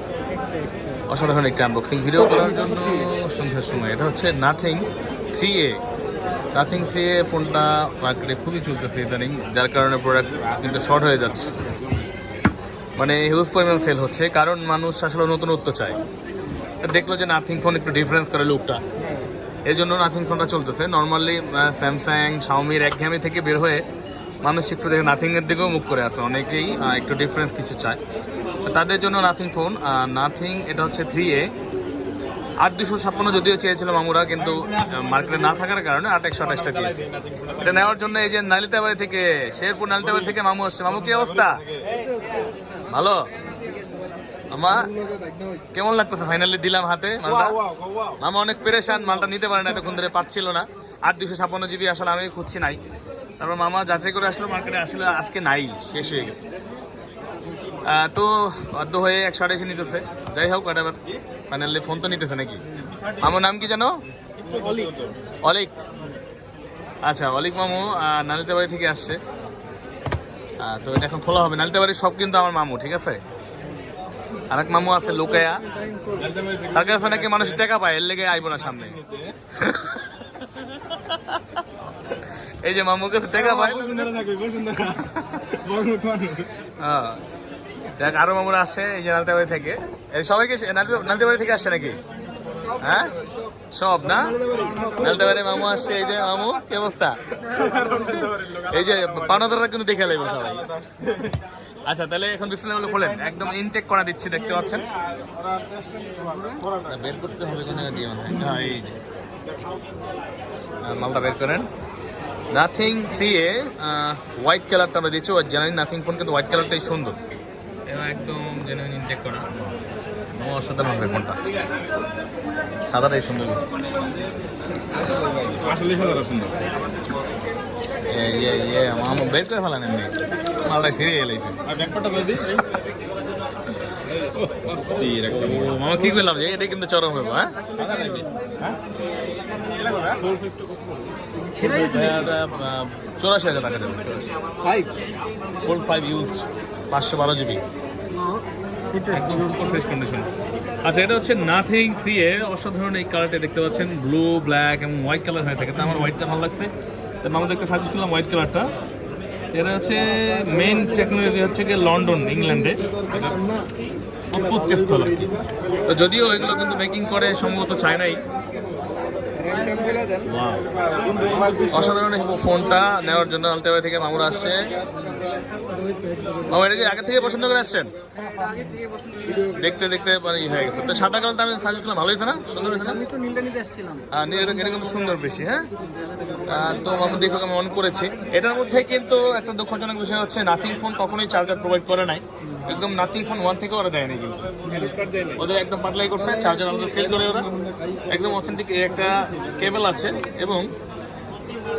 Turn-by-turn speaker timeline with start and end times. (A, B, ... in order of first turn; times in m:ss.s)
0:00.3-0:01.0 A
0:01.1-0:05.8 B
0:06.5-0:11.6 B
0:13.0-0:16.0 B
0:16.8-0:18.8 B
0:19.6-0:23.9 B
0:24.4-0:28.0 B
0:28.6-0:31.5 B
0:32.6-0:41.7 B
0:34.6-0:35.1 C
0:36.7-0:37.7 C
0:41.0-0:42.2 C
0:42.8-0:43.3 B
0:44.5-0:44.9 B
0:44.9-0:45.6 A
0:45.7-0:47.6 B
0:47.4-0:48.2 C
0:48.2-0:52.8 B
0:53.4-0:56.4 B
0:57.8-1:04.0 B
1:02.9-1:03.2 C
1:04.3-1:05.2 C
1:05.4-1:05.8 B
1:07.0-1:09.2 B
1:10.6-1:13.2 B
1:14.5-1:15.7 B
1:15.7-1:16.3 A
1:16.1-1:17.6 C
1:16.7-1:24.2 B
1:18.8-1:19.4 C
1:23.4-1:26.6 C
1:25.0-1:25.5 B
1:26.8-1:27.2 B
1:28.0-1:32.0 B
1:32.7-1:37.4 B
1:32.7-1:33.4 A
1:34.3-1:34.9 A
1:34.4-1:35.0 C
1:37.4-1:39.4 C
1:38.2-1:40.8 B
1:40.4-1:41.5 C
1:41.8-1:44.9 B
1:45.0-1:46.9 C
1:46.8-1:49.0 B
1:50.8-1:51.7 B
1:52.5-1:57.2 B
1:57.9-1:59.7 B
2:00.3-2:01.4 B
2:02.9-2:03.7 B
2:05.0-2:06.6 C
2:08.0-2:11.6 B
2:11.6-2:12.6 C
2:14.0-2:15.8 C
2:15.3-2:17.6 B
2:17.7-2:18.8 C
2:19.6-2:20.5 C
2:21.4-2:22.3 A
2:21.5-2:24.3 B
2:24.6-2:24.9 C
2:25.6-2:27.6 B
2:28.1-2:29.4 A
2:29.0-2:30.3 B
2:30.8-2:38.7 B
2:39.5-2:43.5 B
2:44.3-2:48.2 B
2:49.3-2:50.3 A
2:50.2-2:50.7 B
2:50.9-2:51.7 C
2:51.7-2:54.8 B
2:55.7-2:56.5 A
2:56.4-2:58.0 B
2:58.4-2:59.5 A
2:59.4-3:03.1 B
3:02.9-3:04.1 A
3:04.1-3:05.7 B
3:06.1-3:06.4 A
3:06.4-3:17.5 B
3:14.8-3:15.2 C
3:18.1-3:20.7 B